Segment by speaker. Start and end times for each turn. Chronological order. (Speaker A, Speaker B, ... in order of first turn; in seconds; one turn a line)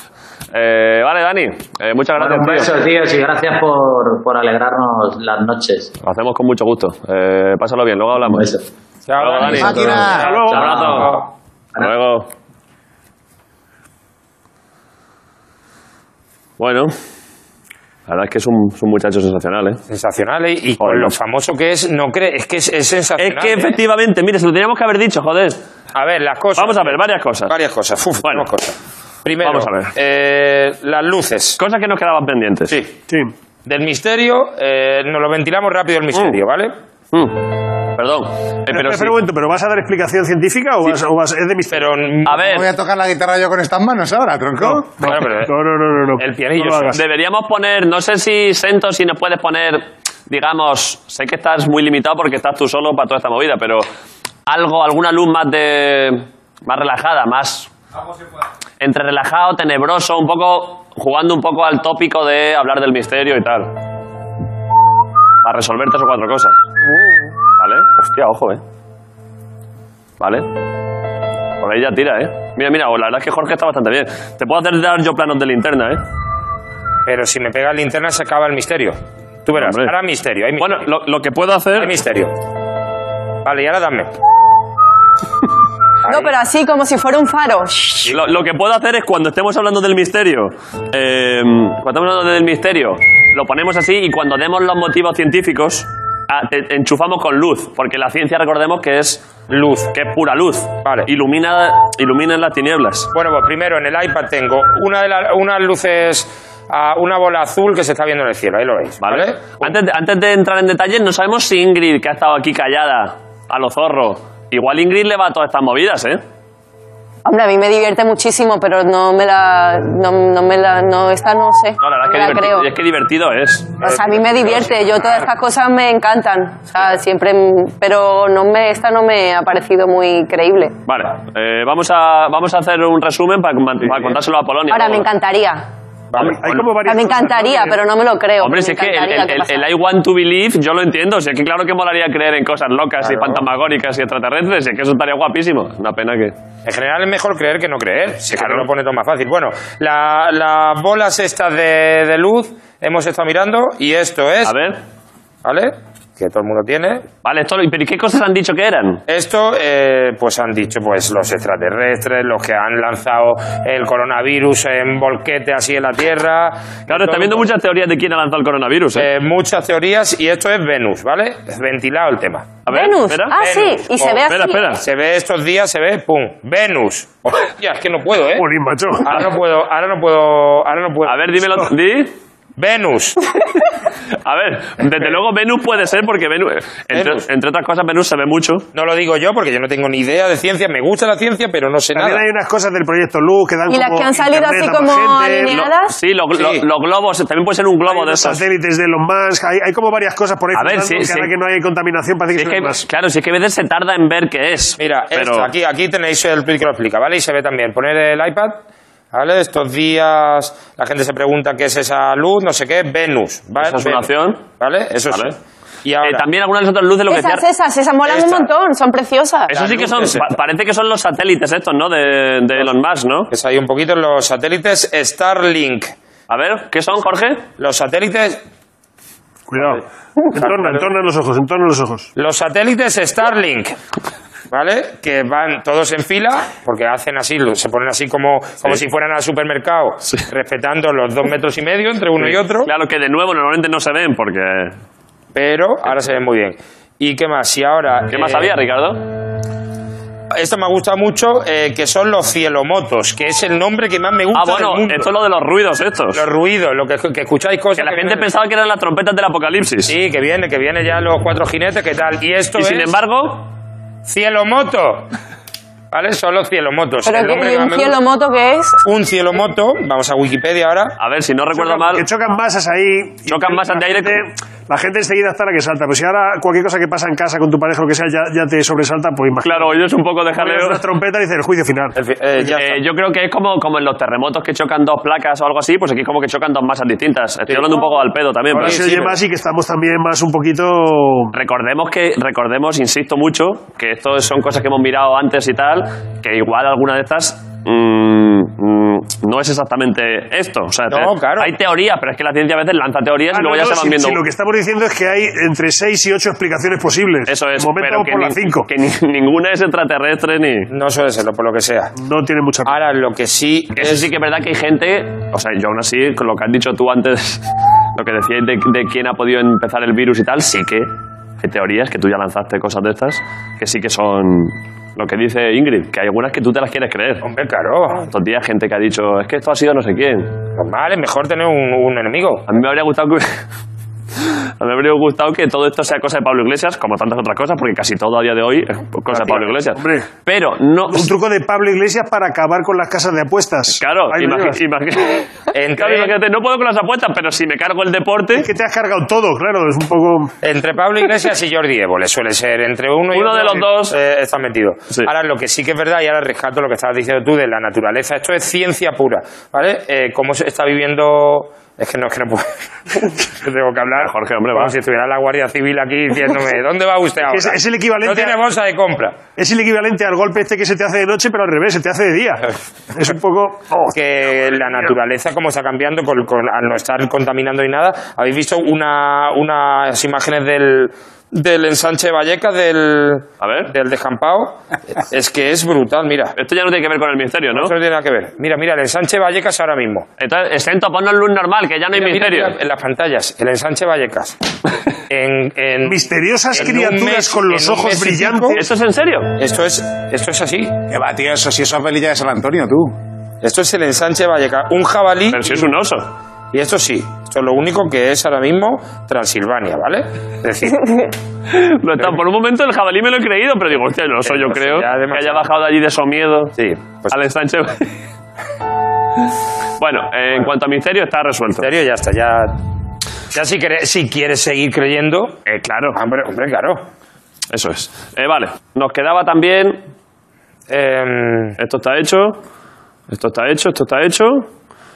Speaker A: 0.5-2.8
Speaker B: 2.2-5.9
Speaker A: 6.0-8.5
Speaker B: 8.2-8.6
Speaker C: 9.1-11.2
Speaker A: 9.2-11.2
Speaker D: 9.5-10.3
Speaker B: 9.6-11.2
Speaker E: 10.1-10.8
Speaker A: 11.8-12.3
Speaker A: 16.6-16.9
Speaker A: 18.1-19.8
Speaker C: 19.9-23.7
Speaker A: 20.8-21.1
Speaker A: 23.2-25.6
Speaker C: 25.9-31.6
Speaker A: 26.6-27.5
Speaker A: 29.4-29.9
Speaker A: 31.6-32.8
Speaker C: 32.7-33.0
Speaker C: 33.6-36.7
Speaker A: 36.1-36.4
Speaker A: 37.1-37.4
Speaker A: 37.9-39.1
Speaker E: 38.7-41.9
Speaker C: 41.7-42.5
Speaker A: 42.2-42.7
Speaker D: 42.3-44.9
Speaker E: 44.6-47.0
Speaker C: 45.0-45.5
Speaker C: 46.2-47.0
Speaker A: 46.9-53.9
Speaker A: 54.5-57.7
Speaker A: 58.8-63.7
Speaker A: 65.4-66.5
Speaker A: 67.6-68.6
Speaker A: 70.2-70.5
Speaker A: 71.6-76.0
Speaker C: 77.0-80.8
Speaker A: 79.5-79.9
Speaker A: 80.6-81.9
Speaker C: 81.8-82.3
Speaker C: 83.4-84.1
Speaker F: 86.1-88.1
Speaker A: 88.1-99.2
Speaker C: 99.5-99.9
Speaker A: 99.9-103.1
Speaker C: 103.1-109.7
Speaker A: 109.0-116.2
Speaker F: 117.2-122.7
Speaker A: 121.8-123.9
Speaker F: 123.8-130.8
Speaker A: 130.8-135.1
Speaker F: 134.7-135.6
Speaker C: 136.1-136.6
Speaker A: 136.2-136.6
Speaker E: 136.3-137.8
Speaker F: 136.8-139.7
Speaker A: 138.4-146.3
Speaker C: 143.0-143.4
Speaker C: 146.6-154.6
Speaker A: 148.3-148.7
Speaker A: 154.4-154.8
Speaker C: 155.4-157.0
Speaker A: 157.2-159.0
Speaker C: 159.1-167.5
Speaker A: 166.9-169.1
Speaker C: 168.9-172.5
Speaker A: 172.7-173.4
Speaker F: 172.7-174.8
Speaker C: 173.4-174.2
Speaker A: 174.3-174.8
Speaker C: 174.8-178.5
Speaker E: 178.3-179.1
Speaker C: 179.0-181.7
Speaker A: 181.1-182.1
Speaker C: 182.6-183.2
Speaker A: 184.2-188.7
Speaker C: 186.9-187.2
Speaker C: 188.7-192.2
Speaker E: 191.9-195.6
Speaker F: 193.7-195.9
Speaker A: 195.5-198.4
Speaker C: 196.3-196.6
Speaker E: 197.8-202.8
Speaker A: 200.5-201.3
Speaker A: 202.3-205.5
Speaker C: 204.8-208.6
Speaker C: 209.1-216.2
Speaker A: 213.6-214.4
Speaker A: 216.0-217.4
Speaker F: 217.1-219.6
Speaker C: 218.1-218.4
Speaker A: 219.5-223.3
Speaker C: 219.5-220.3
Speaker C: 223.3-225.9
Speaker A: 226.3-227.4
Speaker C: 227.6-228.4
Speaker E: 229.5-232.1
Speaker C: 230.4-230.9
Speaker C: 232.2-233.8
Speaker C: 234.5-242.7
Speaker A: 242.2-244.8
Speaker C: 245.3-248.5
Speaker A: 248.1-249.0
Speaker C: 250.3-255.1
Speaker A: 254.3-256.2
Speaker C: 256.1-258.3
Speaker A: 257.8-259.9
Speaker C: 259.9-262.9
Speaker A: 262.5-263.4
Speaker C: 264.1-265.1
Speaker C: 265.9-267.9
Speaker F: 267.0-268.8
Speaker C: 268.8-271.0
Speaker A: 271.0-272.1
Speaker E: 271.5-279.8
Speaker A: 273.3-274.2
Speaker A: 279.4-280.8
Speaker E: 280.3-281.9
Speaker C: 281.9-282.8
Speaker A: 282.5-288.9
Speaker C: 287.5-287.9
Speaker C: 288.5-289.2
Speaker E: 288.5-291.3
Speaker A: 291.3-304.2
Speaker C: 300.9-301.5
Speaker E: 303.3-308.7
Speaker A: 307.3-310.7
Speaker C: 310.7-311.9
Speaker E: 311.9-312.8
Speaker C: 312.6-314.1
Speaker A: 313.7-317.4
Speaker A: 317.9-327.2
Speaker C: 327.2-328.1
Speaker A: 328.1-330.3
Speaker C: 330.6-332.4
Speaker A: 332.5-333.3
Speaker A: 334.2-341.1
Speaker E: 339.1-340.1
Speaker E: 340.9-344.6
Speaker A: 343.8-348.5
Speaker C: 345.5-346.1
Speaker E: 348.4-350.3
Speaker C: 350.4-369.2
Speaker A: 353.1-353.9
Speaker A: 364.0-364.7
Speaker E: 367.2-368.4
Speaker E: 369.4-373.9
Speaker C: 373.9-386.3
Speaker A: 383.4-383.7
Speaker A: 386.4-387.7
Speaker C: 387.5-390.1
Speaker A: 390.2-392.5
Speaker C: 391.9-394.4
Speaker C: 395.1-398.6
Speaker E: 395.9-398.6
Speaker A: 398.5-399.3
Speaker C: 399.4-400.8
Speaker D: 400.9-402.9
Speaker C: 403.4-405.7
Speaker A: 405.3-406.1
Speaker C: 406.5-411.1
Speaker A: 411.5-416.5
Speaker C: 414.2-415.4
Speaker C: 416.6-417.1
Speaker A: 417.1-417.9
Speaker A: 419.8-421.7
Speaker C: 421.6-422.6
Speaker C: 423.3-425.4
Speaker A: 425.4-426.0
Speaker C: 425.9-426.8
Speaker A: 427.5-429.8
Speaker C: 430.7-431.6
Speaker A: 431.6-432.4
Speaker A: 433.1-434.5